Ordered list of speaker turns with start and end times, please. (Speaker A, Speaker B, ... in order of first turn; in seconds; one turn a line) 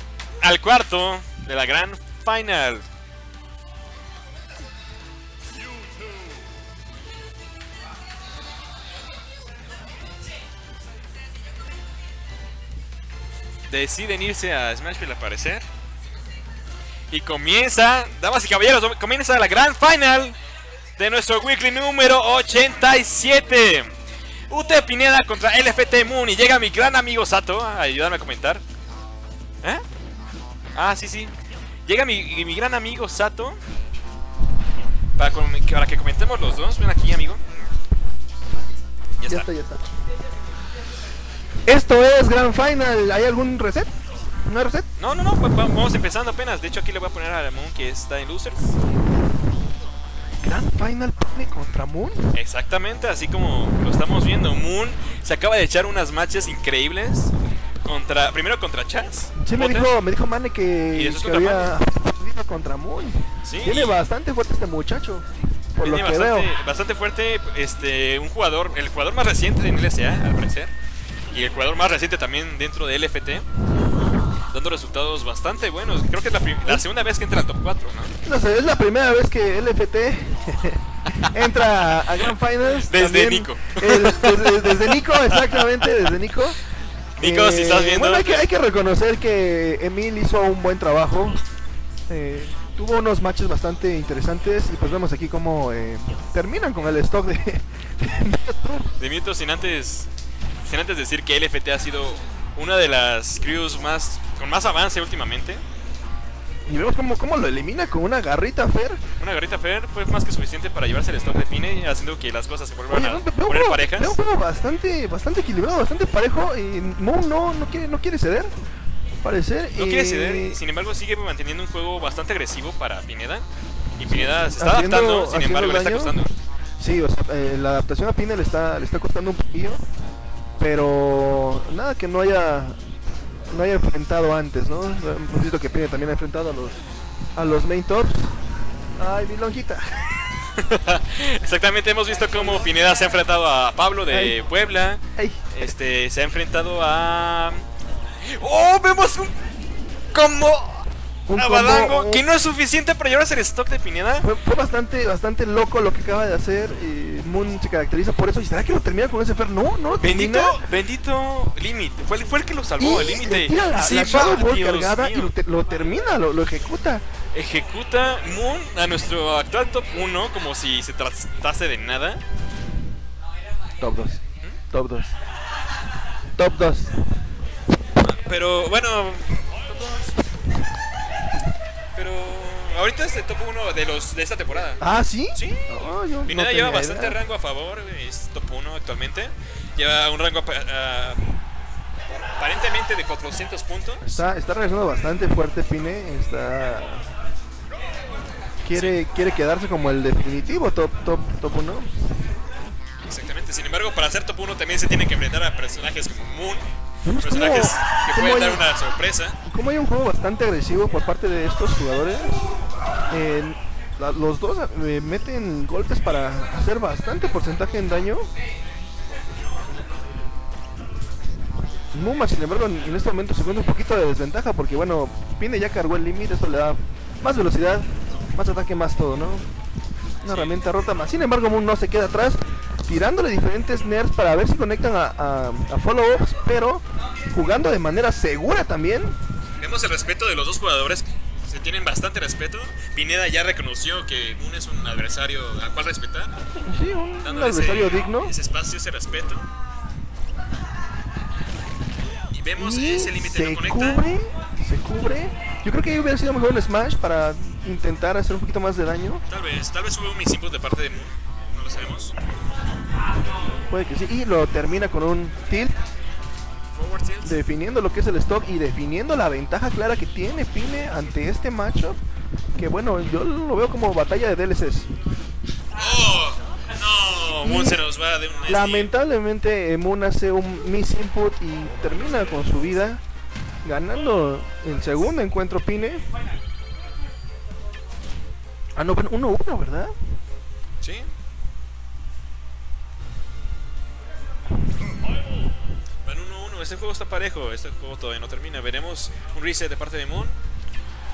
Speaker A: 0.4-2.8
Speaker A: 13.7-15.6
Speaker A: 17.1-20.4
Speaker A: 21.0-23.9
Speaker A: 24.5-28.6
Speaker A: 30.7-31.3
Speaker A: 31.9-33.6
Speaker A: 35.2-37.4
Speaker A: 39.2-39.5
Speaker B: 39.3-39.9
Speaker B: 41.6-43.9
Speaker B: 44.5-44.9
Speaker A: 45.0-48.6
Speaker B: 50.4-52.4
Speaker A: 52.3-57.3
Speaker A: 57.8-59.9
Speaker B: 59.4-65.2
Speaker A: 60.9-61.7
Speaker A: 63.4-64.0
Speaker B: 65.8-66.5
Speaker A: 65.8-70.7
Speaker A: 71.3-73.5
Speaker A: 74.5-78.1
Speaker B: 78.2-86.6
Speaker A: 82.8-85.9
Speaker A: 87.2-88.4
Speaker B: 87.2-91.4
Speaker B: 92.1-98.9
Speaker A: 99.0-100.1
Speaker A: 100.6-105.6
Speaker B: 106.7-109.0
Speaker A: 109.2-114.2
Speaker B: 112.9-118.5
Speaker B: 119.2-120.6
Speaker A: 119.7-126.3
Speaker B: 124.1-126.2
Speaker B: 126.8-129.8
Speaker B: 130.6-132.8
Speaker B: 133.5-136.8
Speaker B: 137.3-138.3
Speaker B: 139.0-140.1
Speaker A: 140.5-147.6
Speaker B: 144.1-144.4
Speaker B: 145.1-145.7
Speaker A: 148.2-149.4
Speaker A: 150.1-154.3
Speaker B: 151.3-152.3
Speaker B: 154.2-160.6
Speaker A: 160.0-165.3
Speaker B: 162.8-167.0
Speaker A: 167.3-172.2
Speaker B: 173.8-175.1
Speaker B: 176.3-176.9
Speaker A: 177.9-180.1
Speaker A: 181.9-184.8
Speaker B: 184.8-187.2
Speaker A: 185.3-191.2
Speaker A: 192.3-194.2
Speaker B: 194.0-197.1
Speaker B: 198.6-201.9
Speaker A: 203.1-206.7
Speaker B: 207.0-208.7
Speaker A: 207.2-209.4
Speaker B: 209.4-212.4
Speaker B: 213.1-218.3
Speaker B: 221.9-229.4
Speaker A: 230.2-230.6
Speaker B: 230.2-239.2
Speaker A: 239.6-246.3
Speaker B: 246.6-248.3
Speaker A: 247.2-249.5
Speaker A: 252.3-254.0
Speaker B: 252.6-259.2
Speaker A: 259.3-262.1
Speaker B: 263.7-265.8
Speaker A: 266.7-267.4
Speaker B: 267.2-272.0
Speaker B: 272.6-274.9
Speaker A: 275.7-278.9
Speaker B: 277.4-277.8
Speaker B: 278.5-283.0
Speaker B: 283.6-286.0
Speaker B: 288.8-289.9
Speaker A: 290.8-291.1
Speaker A: 296.0-300.4